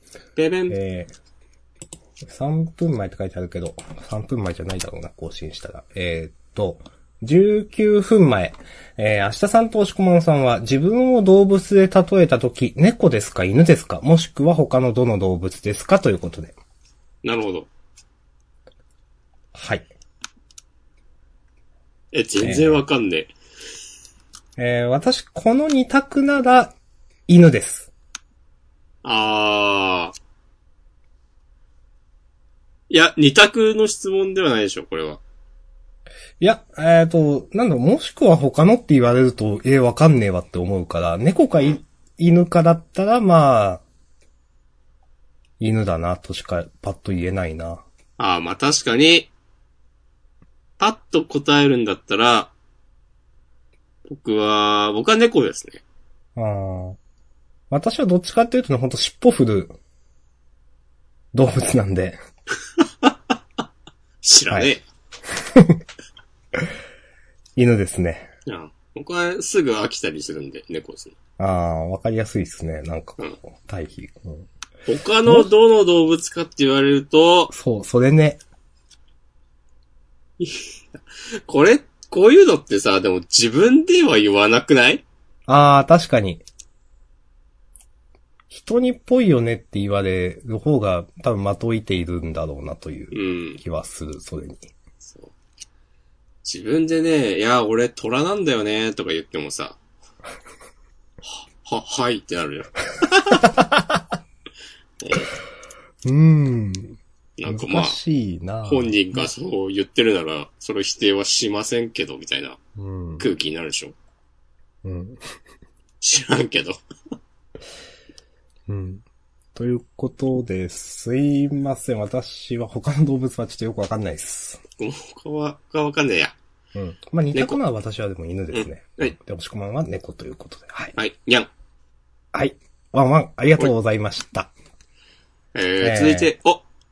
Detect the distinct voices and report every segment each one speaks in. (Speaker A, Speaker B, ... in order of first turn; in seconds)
Speaker A: 0.4-0.8, 17.2-17.7, 22.1-23.3, 29.0-30.1, 32.9-35.2, 48.2-49.3, 50.8-52.5, 54.1-55.8, 64.2-64.8, 68.5-71.2, 74.9-77.5, 80.4-85.0, 93.1-93.6, 95.0-95.3, 96.4-99.8, 101.2-103.4, 105.0-105.3, 107.4-108.0, 108.7-112.6, 113.2-114.0, 116.0-116.8, 124.8-126.3, 127.3-127.6, 128.5-129.1, 131.0-131.5, 135.5-136.6
Speaker B: 0.7-1.1, 2.3-16.5, 19.6-19.9, 22.4-22.8, 24.6-26.8, 27.3-27.9, 36.4-43.8, 45.6-47.8, 56.4-57.0, 57.7-59.8, 61.3-62.2, 65.5-65.8, 67.6-68.3, 71.4-74.5, 75.2-75.5, 77.5-78.4, 85.5-86.4, 88.5-94.7, 106.0-109.3, 112.8-113.2, 114.8-115.2, 118.7-119.0, 119.5-124.6, 126.8-130.9, 132.3-134.5, 135.8-136.3